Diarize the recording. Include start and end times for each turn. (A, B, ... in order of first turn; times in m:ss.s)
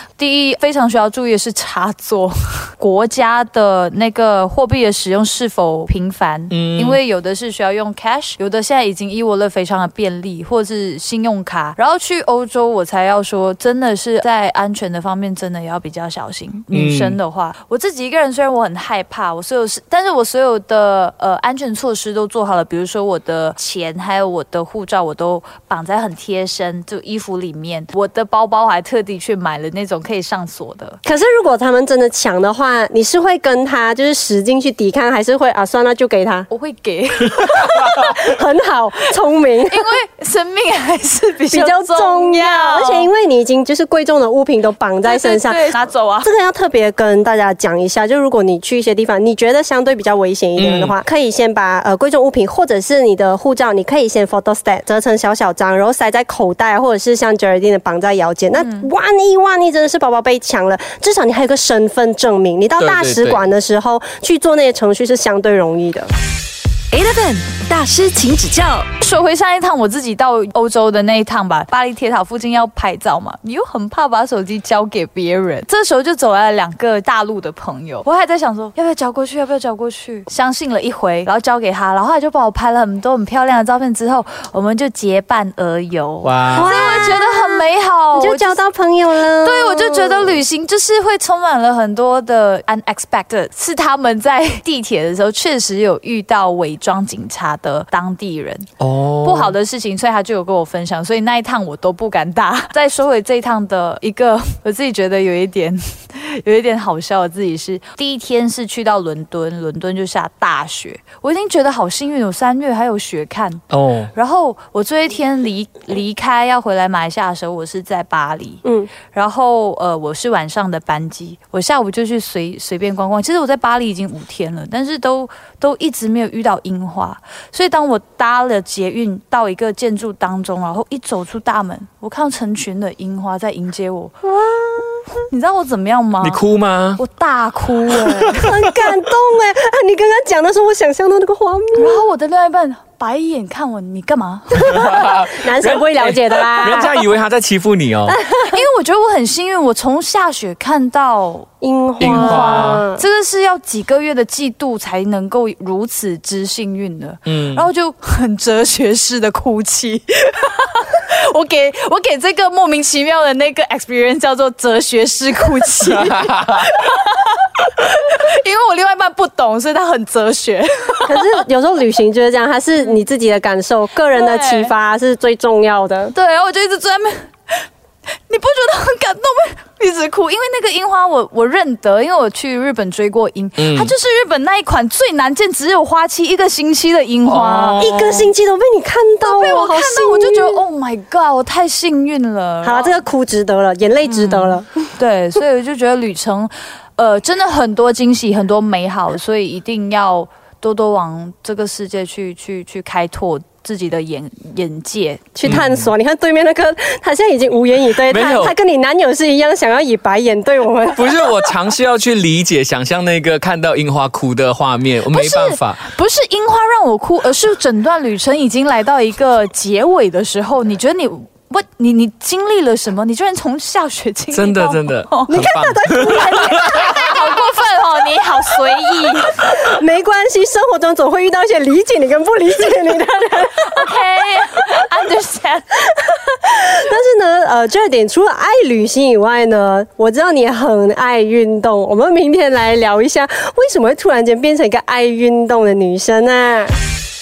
0:00.2-0:31.0 A
0:06.5-0:07.0 B
0:16.7-0:17.2 B
0:31.0-0:36.5 C
0:36.5-0:38.2 A
0:37.9-0:40.0 C
0:39.7-0:43.1 A
0:41.5-1:06.1 C
0:45.0-0:46.3 A
0:50.6-0:50.9 B
0:58.6-0:58.9 A
1:02.8-1:03.4 B
1:06.9-1:08.9 D
1:09.0-1:28.6 A
1:26.2-1:27.1 B
1:26.5-1:30.4 C
1:29.4-1:38.7 A
1:38.8-1:39.6 B
1:39.2-2:14.2 A
1:53.7-1:54.1 B
1:58.6-1:58.9 C
2:14.2-2:14.9 C
2:15.3-2:16.4 A
2:16.2-2:17.0 B
2:17.0-2:18.5 A
2:18.3-2:22.0 C
2:21.8-2:24.7 A
2:24.5-2:27.0 C
2:24.6-2:28.2 B
2:28.1-2:28.6 C
2:28.4-2:31.5 A
2:31.6-2:33.0 C
2:32.0-2:32.8 B
2:32.0-2:51.2 A
2:37.3-2:37.7 B
2:45.9-2:46.6 B
2:51.1-2:56.1 C
2:54.1-2:54.7 A
2:56.1-2:57.3 A
2:58.3-3:08.3 A
3:03.6-3:03.9 B
3:07.3-3:08.2 B
3:07.8-3:10.6 C
3:09.2-3:13.0 A
3:12.6-3:14.9 C
3:14.0-3:25.3 A
3:25.4-3:31.2 C
3:25.5-3:25.9 B
3:28.1-3:28.5 B
3:31.0-3:35.8 B
3:35.1-3:45.3 A
3:44.3-3:47.0 B
3:45.3-3:47.3 C
3:46.2-3:49.3 A
3:49.3-3:53.9 C
3:53.5-3:55.9 A
3:56.4-4:06.7 C